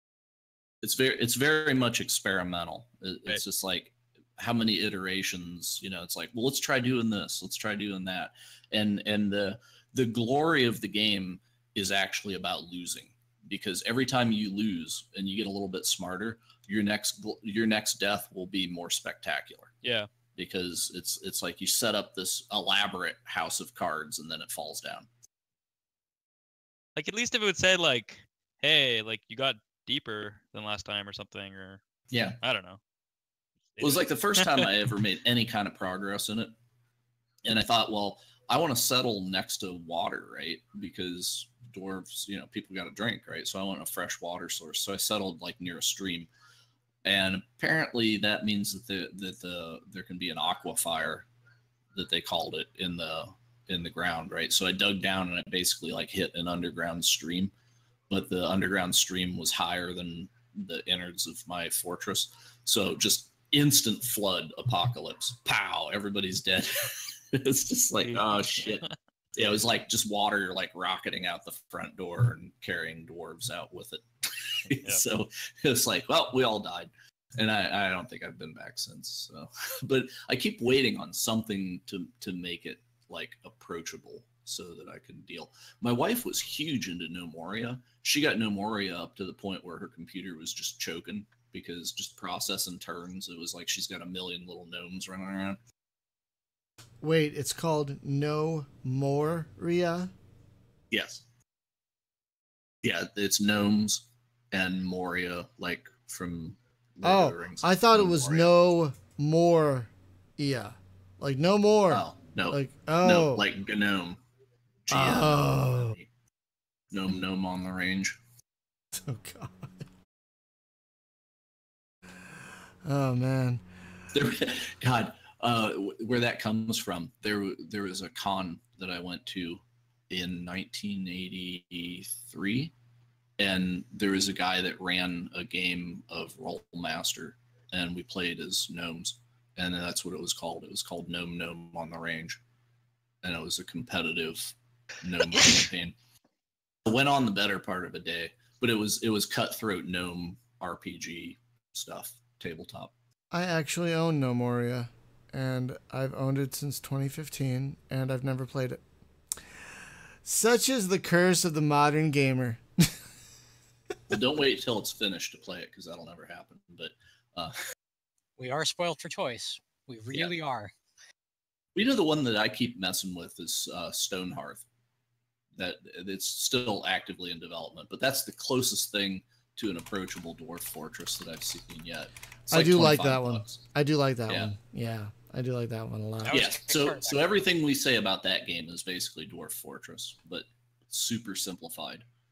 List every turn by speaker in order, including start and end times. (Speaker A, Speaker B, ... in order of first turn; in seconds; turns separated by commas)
Speaker A: 0.8-19.7, Speaker B: 19.8-20.1, Speaker A: 20.4-25.1, Speaker B: 26.9-31.8, Speaker A: 32.1-32.4, Speaker B: 32.4-32.8, Speaker B: 33.8-34.7, Speaker A: 33.8-36.5, Speaker A: 37.4-46.3, Speaker A: 47.0-51.3, Speaker A: 51.9-57.5, Speaker A: 58.1-95.6, Speaker B: 68.0-68.9, Speaker C: 97.0-100.1, Speaker A: 100.9-101.2, Speaker A: 102.8-108.5, Speaker C: 107.0-113.4, Speaker A: 111.9-114.2, Speaker A: 114.8-116.1, Speaker C: 114.9-116.0, Speaker A: 116.9-118.2, Speaker C: 118.9-119.7, Speaker C: 122.8-123.6, Speaker A: 124.1-132.7, Speaker A: 133.4-142.4, Speaker A: 143.2-145.9, Speaker A: 146.8-152.9, Speaker C: 153.3-158.8, Speaker C: 160.2-162.9, Speaker A: 164.1-167.6, Speaker D: 168.4-170.7, Speaker A: 171.7-174.6, Speaker A: 175.6-183.6, Speaker C: 182.5-186.4, Speaker D: 186.2-187.2, Speaker A: 186.3-192.0